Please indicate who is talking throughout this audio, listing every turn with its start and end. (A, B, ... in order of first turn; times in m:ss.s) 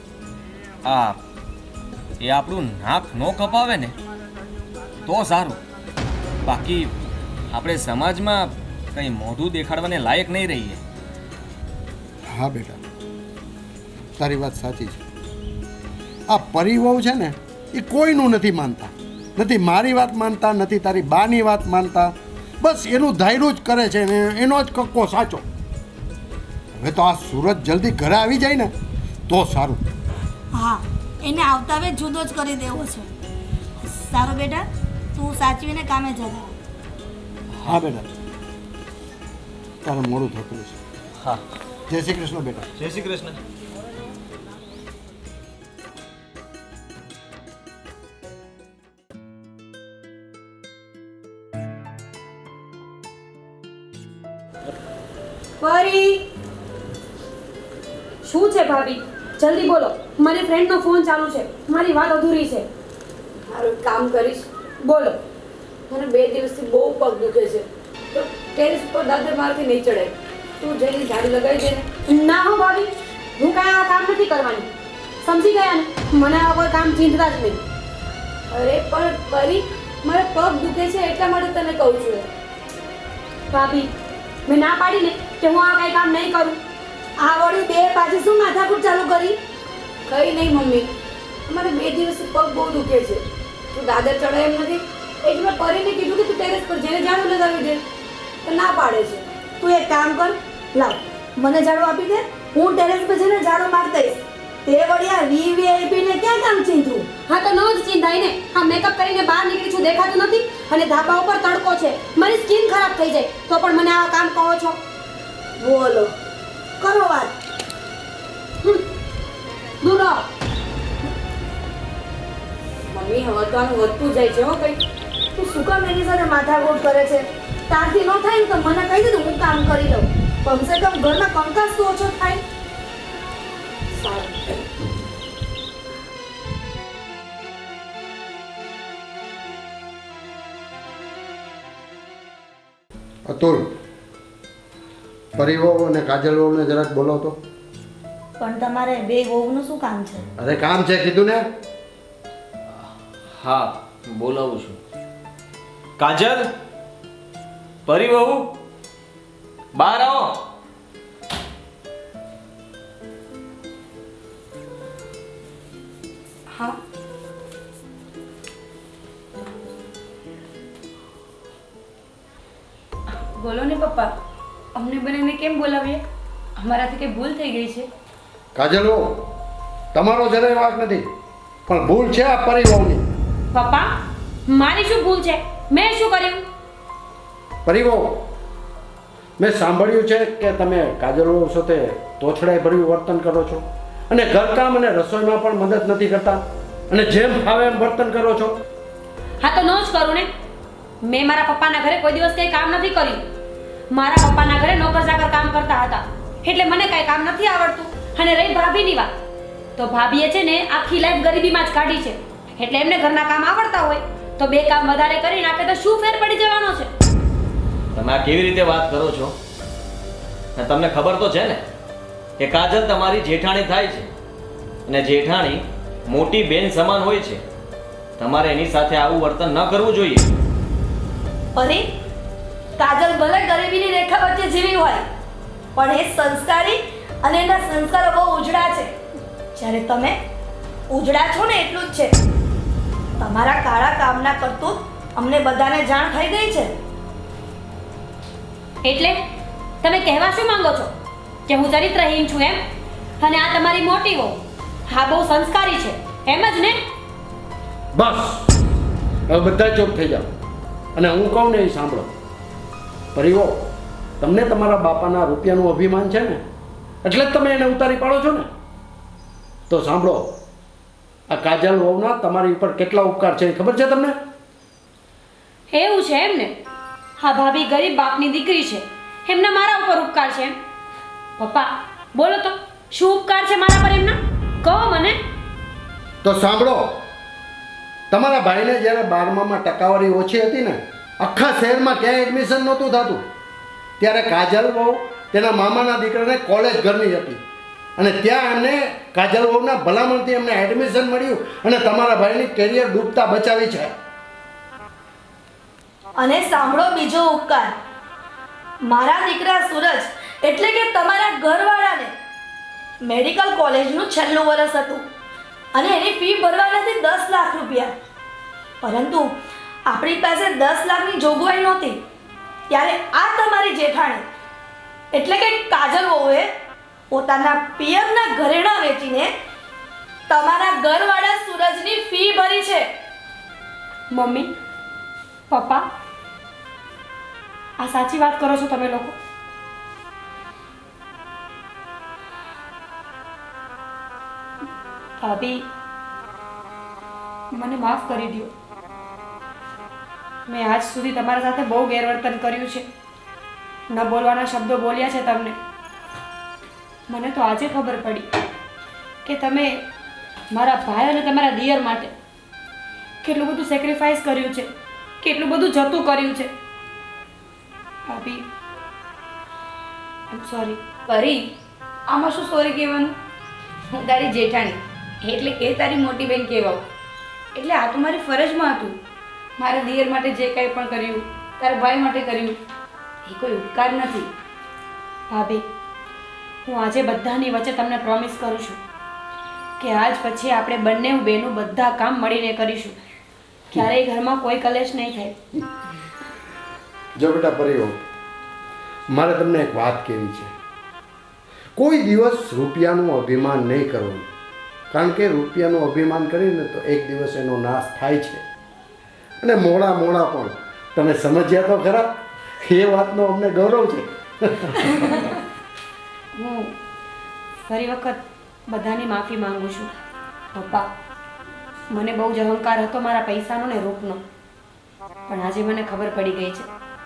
0:00.8-0:01.2 A
0:02.2-0:04.0 A
0:05.0-0:05.6 A
0:06.4-0:06.9 A
0:07.5-0:10.8 A
0:12.3-0:12.8 B
0:14.2-0:15.0 B
0:16.3-0:25.4 B
0:26.8-0:28.7 B
0:29.3-0:29.8 B
0:30.5-0:33.1 C
0:33.8-0:36.6 C
0:37.5-0:37.8 A
0:37.6-0:38.1 B
0:39.8-0:40.8 B
0:41.9-0:42.7 B
0:42.8-0:43.4 A
0:55.6-0:56.1 D
0:58.2-1:02.7 E
1:03.5-1:04.5 D
1:04.8-1:05.2 E
1:05.9-1:11.9 D
1:12.1-1:14.7 E
1:15.2-1:17.6 E
1:18.5-1:22.3 D
1:23.5-1:23.9 E
1:24.5-1:26.6 E
1:27.2-1:29.3 E
1:30.1-1:30.9 D
1:31.5-1:37.8 D
1:38.4-1:39.3 D
1:39.6-1:47.1 C
1:47.3-1:54.8 E
1:55.6-1:56.1 C
1:56.8-1:57.4 C
1:59.8-2:00.2 E
2:02.9-2:04.8 D
2:05.4-2:12.4 C
2:23.3-2:23.7 B
2:25.4-2:27.4 B
2:28.4-2:30.3 C
2:30.4-2:31.4 B
2:33.3-2:34.8 A
2:36.0-2:36.5 A
2:37.9-2:38.5 A
2:39.8-2:40.4 A
2:53.1-2:54.1 D
2:54.8-2:56.0 D
2:56.6-2:57.9 D
2:58.6-2:59.3 B
2:59.9-3:01.1 B
3:01.7-3:03.1 B
3:03.5-3:03.9 E
3:04.5-3:06.4 E
3:07.7-3:08.3 B
3:09.4-3:18.6 B
3:19.4-3:20.3 E
3:21.0-3:23.2 E
3:23.9-3:29.1 E
3:29.8-3:36.9 E
3:37.9-3:39.4 A
3:40.6-3:41.6 A
3:42.4-3:44.1 A
3:44.9-3:47.4 A
3:48.2-3:50.3 A
3:51.6-3:51.9 C
3:52.8-3:55.0 C
3:55.8-3:58.9 C
3:59.6-4:00.2 C
4:00.9-4:02.2 C
4:03.2-4:06.8 C
4:08.8-4:09.2 E
4:09.8-4:10.9 E
4:11.5-4:12.6 E
4:13.2-4:16.8 E
4:18.0-4:18.5 B
4:19.3-4:20.3 B
4:21.0-4:22.1 B
4:23.2-4:23.7 B
4:24.2-4:26.4 B
4:27.0-4:28.5 B
4:29.7-4:30.4 B
4:31.3-4:34.2 B
4:35.7-4:36.5 E
4:37.2-4:40.6 E
4:41.4-4:45.2 E
4:46.2-4:47.0 B
4:48.1-4:53.3 B
4:54.0-4:57.4 B
4:58.0-5:03.9 B
5:06.2-5:07.7 C
5:08.8-5:12.1 C
5:13.0-5:15.1 C
5:15.7-5:17.9 C
5:18.8-5:19.3 C
5:19.9-5:22.0 C
5:22.7-5:24.2 C
5:25.1-5:26.5 C
5:27.1-5:29.3 C
5:30.3-5:32.9 C
5:34.1-5:34.5 E
5:35.5-5:35.9 E
5:37.8-5:39.2 E
5:45.2-5:45.7 E
5:47.5-5:48.5 E
5:50.5-5:52.9 E
5:53.9-5:55.6 E
5:57.1-5:58.3 E
5:59.2-5:59.8 E
6:00.5-6:02.1 E
6:03.2-6:04.7 E
6:05.2-6:06.5 E
6:08.1-6:08.4 E
6:10.3-6:10.8 E
6:11.1-6:11.5 D
6:12.1-6:13.2 D
6:13.9-6:16.8 D
6:17.6-6:19.0 D
6:19.6-6:22.6 D
6:23.2-6:24.3 D
6:25.3-6:25.6 E
6:26.6-6:28.8 E
6:29.8-6:33.0 E
6:33.7-6:35.4 E
6:37.2-6:38.0 B
6:39.1-6:40.5 B
6:41.8-6:44.3 B
6:44.9-6:48.4 B
6:49.4-6:55.3 B
6:56.4-6:56.7 E
6:57.6-7:00.0 E
7:00.5-7:00.9 E
7:01.9-7:04.2 E
7:05.3-7:06.7 E